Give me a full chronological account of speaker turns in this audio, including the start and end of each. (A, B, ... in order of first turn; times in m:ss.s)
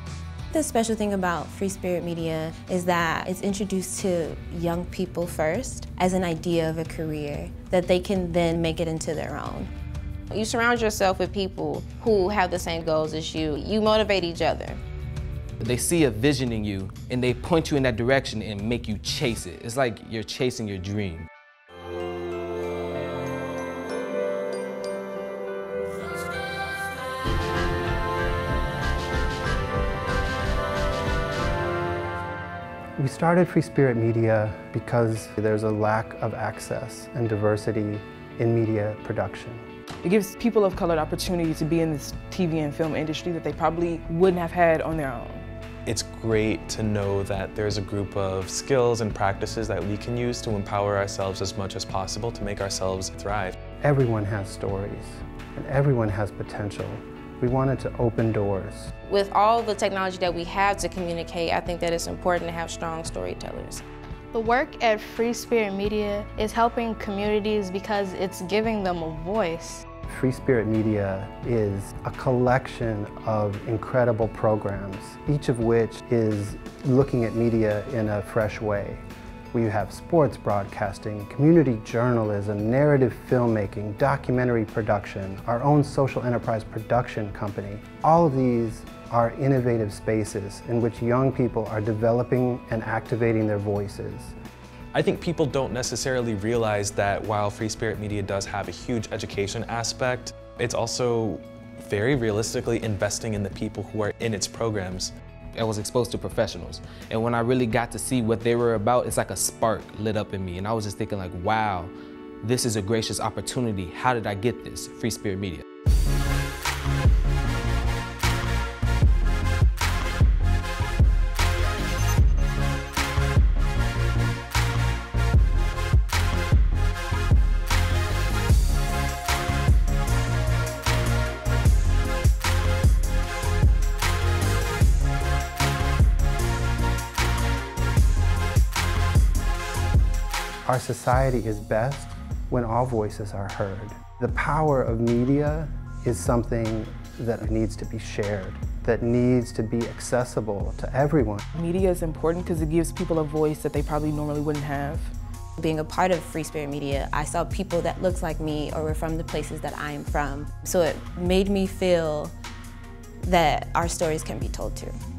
0:00.5-0:09.7 A
0:10.3-0:14.8 B
0:15.6-0:21.3 C
0:33.0-0:39.7 D
0:40.0-0:45.5 E
0:45.9-0:53.6 F
0:53.8-0:58.9 D
0:59.1-1:03.8 B
1:04.3-1:09.8 G
1:10.1-1:34.4 D
1:34.9-1:45.1 F
1:45.6-1:55.6 C
2:20.6-2:31.4 D
2:31.6-2:35.1 E
2:35.6-2:42.3 A
2:43.2-2:45.0 A